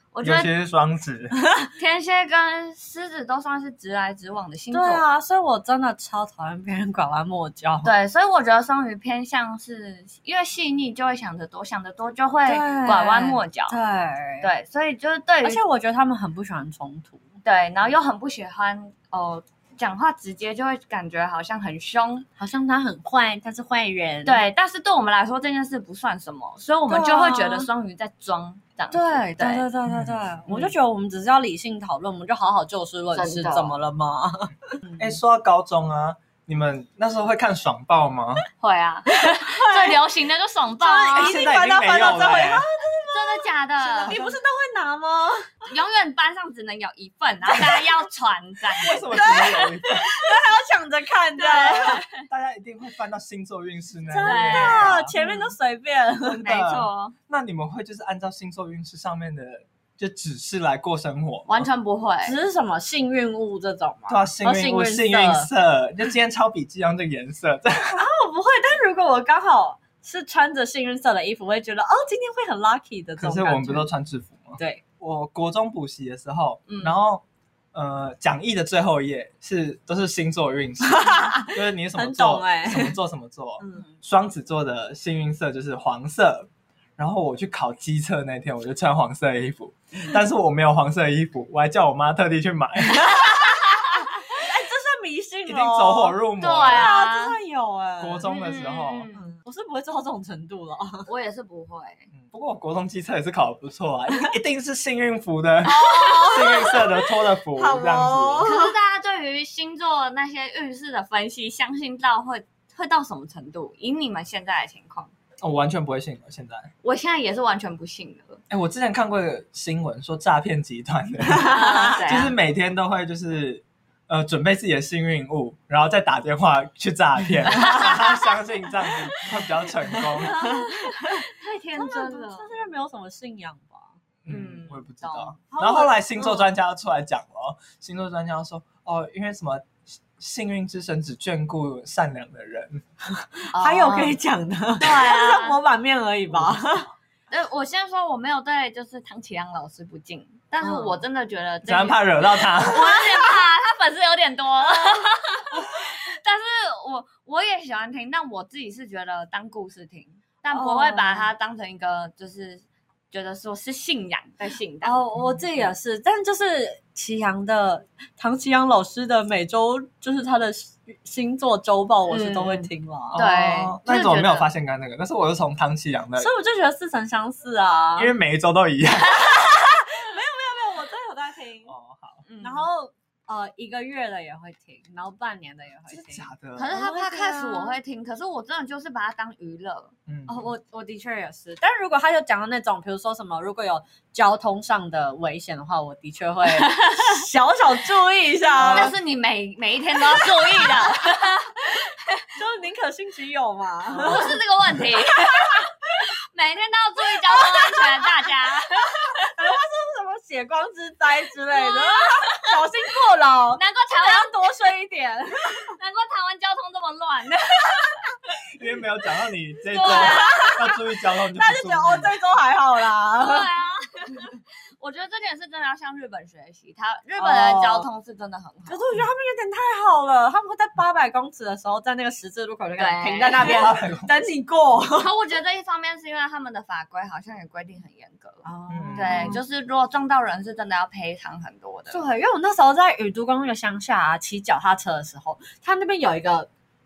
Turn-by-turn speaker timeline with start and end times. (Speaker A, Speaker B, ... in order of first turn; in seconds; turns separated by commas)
Speaker A: 0.1-0.5, Speaker B: 0.2-1.3, Speaker C: 1.4-1.7, Speaker A: 1.8-5.0, Speaker C: 4.7-7.9, Speaker A: 7.8-13.8, Speaker C: 12.5-14.5, Speaker A: 14.4-15.6, Speaker C: 15.4-17.2, Speaker A: 17.4-22.3, Speaker C: 22.4-24.4, Speaker A: 24.2-29.7, Speaker C: 26.9-27.7, Speaker C: 28.9-35.1, Speaker B: 29.9-30.2, Speaker A: 33.1-33.8, Speaker B: 35.0-38.4, Speaker A: 38.6-41.4, Speaker C: 39.3-40.0, Speaker C: 40.8-45.5, Speaker B: 41.1-42.6, Speaker A: 43.1-44.2, Speaker B: 44.1-44.3, Speaker A: 45.7-49.6, Speaker B: 48.8-50.2, Speaker C: 48.9-52.0, Speaker A: 51.4-52.2, Speaker B: 51.8-55.1, Speaker C: 54.1-56.5, Speaker A: 54.2-55.5, Speaker B: 56.2-61.7, Speaker A: 56.4-57.1, Speaker A: 61.5-62.4, Speaker C: 62.2-65.5, Speaker B: 64.1-68.0, Speaker C: 67.9-73.9, Speaker B: 73.2-77.2, Speaker A: 76.7-77.0, Speaker B: 77.7-93.3, Speaker C: 80.8-83.0, Speaker C: 83.6-83.9, Speaker C: 93.0-93.3, Speaker C: 94.3-98.3, Speaker B: 95.5-96.9, Speaker A: 96.4-97.4, Speaker B: 98.0-99.1, Speaker A: 98.2-99.3, Speaker C: 99.1-101.1, Speaker A: 101.1-102.1, Speaker B: 102.1-108.5, Speaker C: 105.7-108.7, Speaker A: 105.7-106.8, Speaker A: 108.5-115.1, Speaker B: 115.4-116.7, Speaker A: 116.8-118.4, Speaker B: 118.5-130.6, Speaker C: 121.3-122.0, Speaker A: 121.5-122.3, Speaker C: 127.6-127.9, Speaker C: 129.8-134.0, Speaker A: 130.5-132.5, Speaker B: 134.2-142.8, Speaker A: 134.3-135.4, Speaker C: 135.5-136.5, Speaker C: 143.2-146.9, Speaker A: 143.5-144.2, Speaker A: 144.8-145.6, Speaker B: 146.3-146.8, Speaker A: 147.3-165.0, Speaker C: 150.6-151.0, Speaker B: 151.7-152.9, Speaker C: 160.5-161.3, Speaker C: 164.8-173.2, Speaker A: 172.1-174.5, Speaker B: 173.1-176.3, Speaker C: 176.2-178.1, Speaker B: 178.0-179.3, Speaker C: 179.2-181.7, Speaker B: 181.7-182.2, Speaker A: 182.3-182.7, Speaker C: 182.4-187.8, Speaker B: 185.9-186.7, Speaker A: 186.6-189.9, Speaker B: 190.1-190.5, Speaker C: 190.3-198.9, Speaker A: 196.6-197.1, Speaker B: 198.6-199.0, Speaker A: 198.6-202.3, Speaker C: 200.3-200.8, Speaker C: 202.3-204.3, Speaker B: 203.9-204.3, Speaker A: 204.0-209.3, Speaker C: 205.3-205.6, Speaker C: 207.1-208.3, Speaker C: 209.1-215.7, Speaker A: 211.5-212.6, Speaker A: 213.5-214.4, Speaker A: 215.7-218.2, Speaker B: 218.5-222.1, Speaker A: 219.7-220.7, Speaker C: 219.8-220.8, Speaker C: 221.3-223.5, Speaker A: 223.2-228.8, Speaker C: 227.2-227.9, Speaker C: 228.7-235.1, Speaker A: 232.8-233.7, Speaker B: 233.4-234.1, Speaker A: 234.9-242.0, Speaker C: 238.4-239.4, Speaker B: 238.7-239.4, Speaker C: 241.9-246.5